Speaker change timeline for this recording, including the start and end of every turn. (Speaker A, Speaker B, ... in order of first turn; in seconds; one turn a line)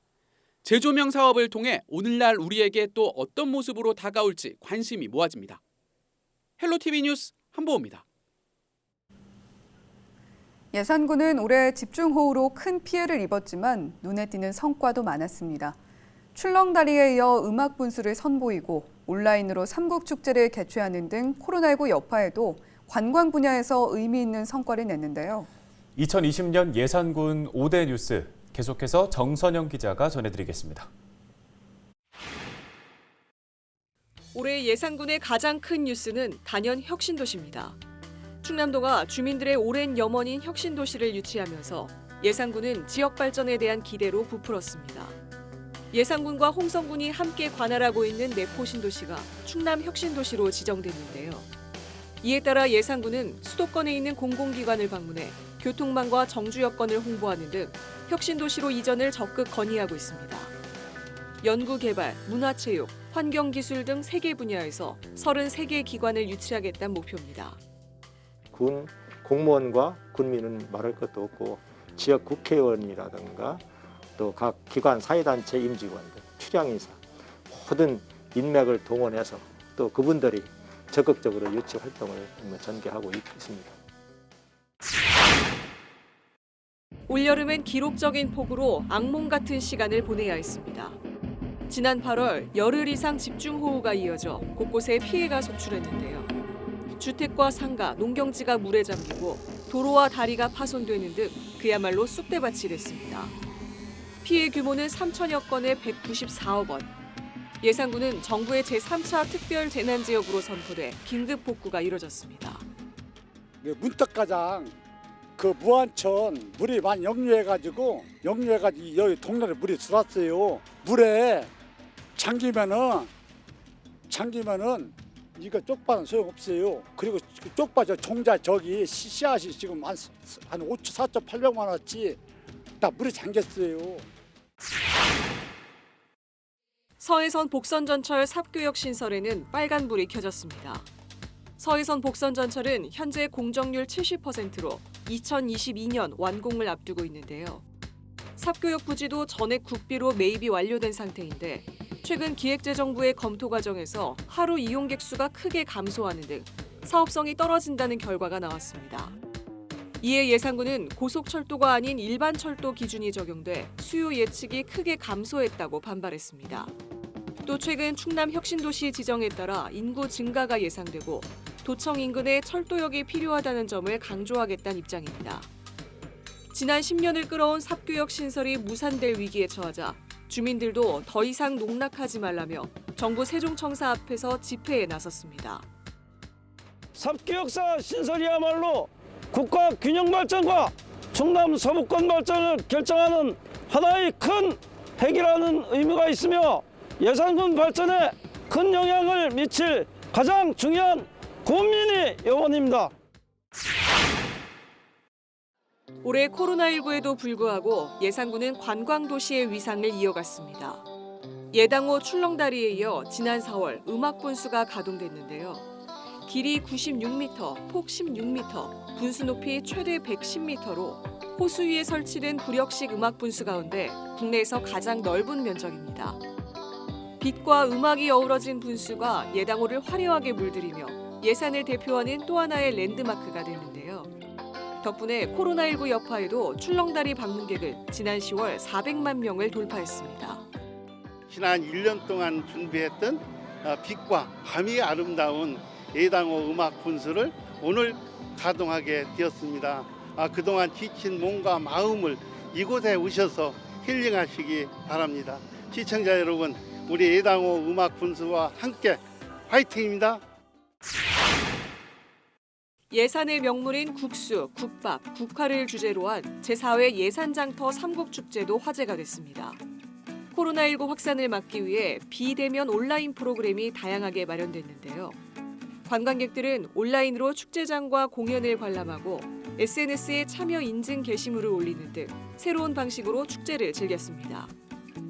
Speaker A: 0.6-5.6
Speaker A: 6.6-8.0
Speaker B: 10.7-15.8
Speaker B: 16.3-25.5
Speaker C: 25.9-30.9
Speaker D: 34.3-37.8
Speaker D: 38.4-45.1
Speaker D: 45.9-51.5
Speaker D: 52.2-60.5
Speaker D: 61.4-67.6
Speaker E: 68.5-73.6
Speaker F: 68.7-73.6
Speaker E: 74.2-77.0
Speaker F: 74.2-76.9
Speaker F: 77.6-83.7
Speaker E: 77.7-79.8
Speaker E: 80.9-83.7
Speaker D: 87.1-91.0
Speaker D: 91.7-96.3
Speaker D: 97.0-103.3
Speaker D: 104.2-106.9
Speaker D: 107.6-112.6
Speaker G: 113.6-114.7
Speaker G: 115.4-121.5
Speaker G: 122.2-123.1
Speaker G: 124.1-132.2
Speaker G: 132.8-134.0
Speaker D: 137.0-140.8
Speaker D: 141.6-147.6
Speaker D: 148.4-159.1
Speaker D: 160.0-166.7
Speaker D: 167.4-175.5
Speaker D: 176.5-185.7
Speaker E: 187.0-202.9
Speaker D: 206.0-210.8
Speaker D: 211.5-215.7
Speaker D: 216.2-226.2
Speaker D: 227.2-234.1
Speaker D: 234.8-240.4
Speaker H: 241.3-260.2
Speaker D: 262.9-269.6
Speaker D: 270.3-275.2
Speaker D: 275.9-284.5